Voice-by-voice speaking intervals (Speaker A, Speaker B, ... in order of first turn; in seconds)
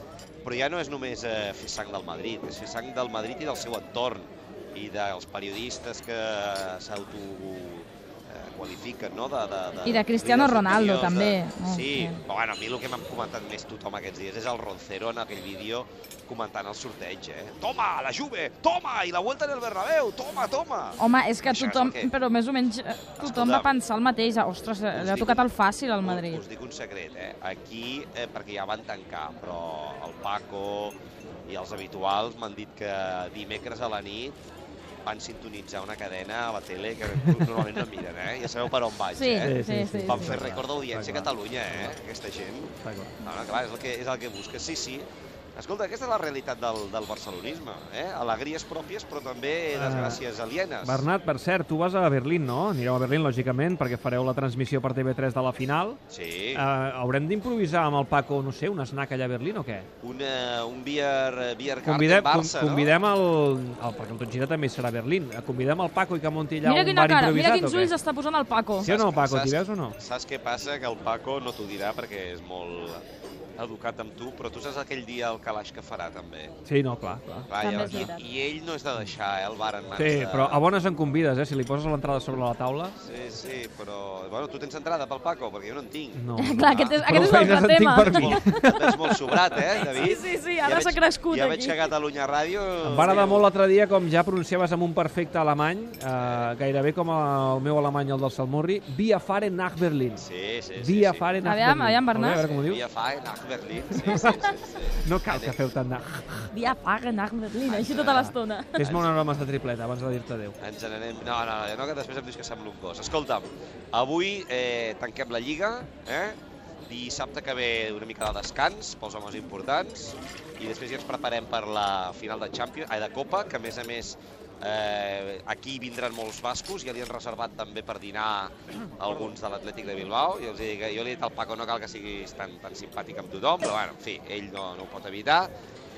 Speaker A: 0.4-22.1, 23.2-23.7, 24.9-25.5, 26.0-34.4, 35.0-51.1, 56.1-56.6, 60.0-62.9, 68.8-73.0, 73.6-76.5, 77.5-80.7, 83.0-87.6, 88.1-93.5, 96.2-96.5, 100.2-101.3, 102.4-105.6, 107.7-108.3, 108.8-109.1, 110.6-135.5
Speaker B: 9.8-12.2, 21.0-26.4, 39.1-40.4, 66.6-68.9, 77.6-78.2, 86.4-91.9, 101.4-102.5, 104.2-104.5, 106.5-108.9
Speaker C: 37.1-37.9, 39.4-42.0, 42.8-43.2, 49.7-50.2, 50.8-56.0, 56.5-59.9, 61.8-68.0, 68.8-70.0, 76.7-78.1, 80.0-83.0, 86.1-88.9, 92.8-100.3, 100.8-102.9, 103.9-104.4, 105.0-106.6, 108.1-110.6